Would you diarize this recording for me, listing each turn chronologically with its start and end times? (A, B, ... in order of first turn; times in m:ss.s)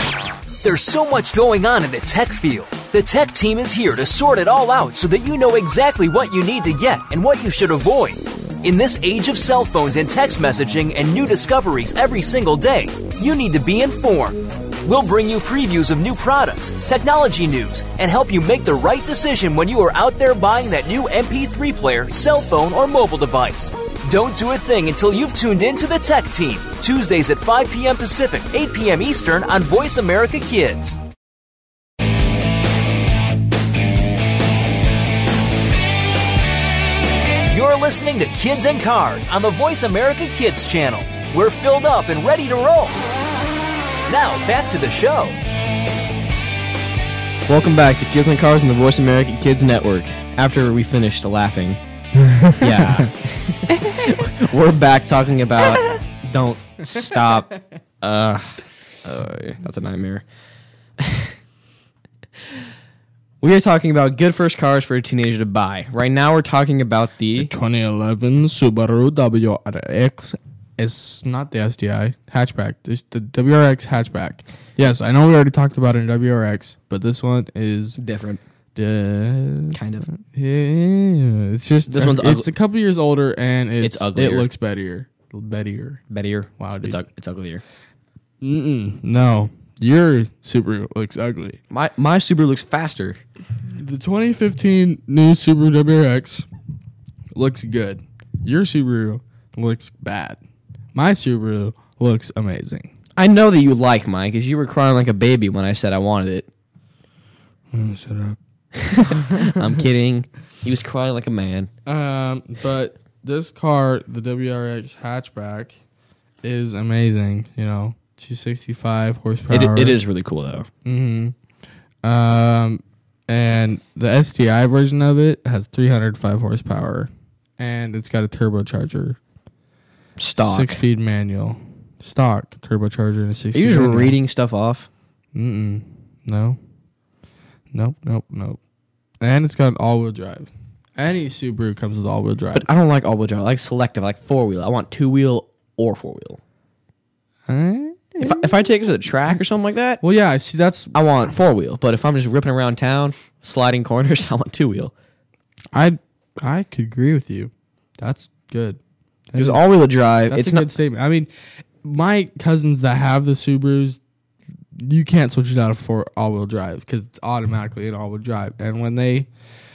0:00.6-0:31.0 A
0:37.5-0:43.0 A
0:44.1-0:45.4 A
0:47.4-0:51.8 B
0:52.2-0:53.1 C
0:52.6-1:00.2 B
1:01.0-1:01.4 B
1:03.4-1:07.5 B
1:07.4-1:18.0 C
1:18.0-1:18.4 B
1:18.7-1:26.0 C
1:19.7-1:20.1 B
1:21.9-1:22.5 B
1:23.8-1:24.5 B
1:26.1-1:27.6 B
1:26.6-1:27.0 C
1:28.4-1:31.6 C
1:31.7-1:33.2 B
1:33.7-1:36.4 C
1:37.4-1:40.4 C
1:40.9-1:42.9 C
1:43.2-1:46.5 B
1:47.7-1:48.4 C
1:48.9-1:51.7 B
1:48.9-1:49.5 C
1:51.8-1:55.7 C
1:56.4-2:00.0 C
1:59.5-2:00.7 B
2:00.8-2:01.3 C
2:02.0-2:09.2 C
2:10.2-2:10.8 B
2:10.4-2:14.2 C
2:13.5-2:14.9 B
2:15.3-2:16.6 C
2:17.7-2:18.6 C
2:19.2-2:22.7 C
2:22.5-2:26.4 B
2:27.5-2:28.6 C
2:28.2-2:30.0 B
2:30.0-2:31.0 C
2:30.9-2:34.9 B
2:35.7-2:38.8 C
2:39.3-2:39.6 C
2:39.4-2:40.7 B
2:40.3-2:41.3 C
2:41.8-2:44.0 C
2:44.8-2:49.3 C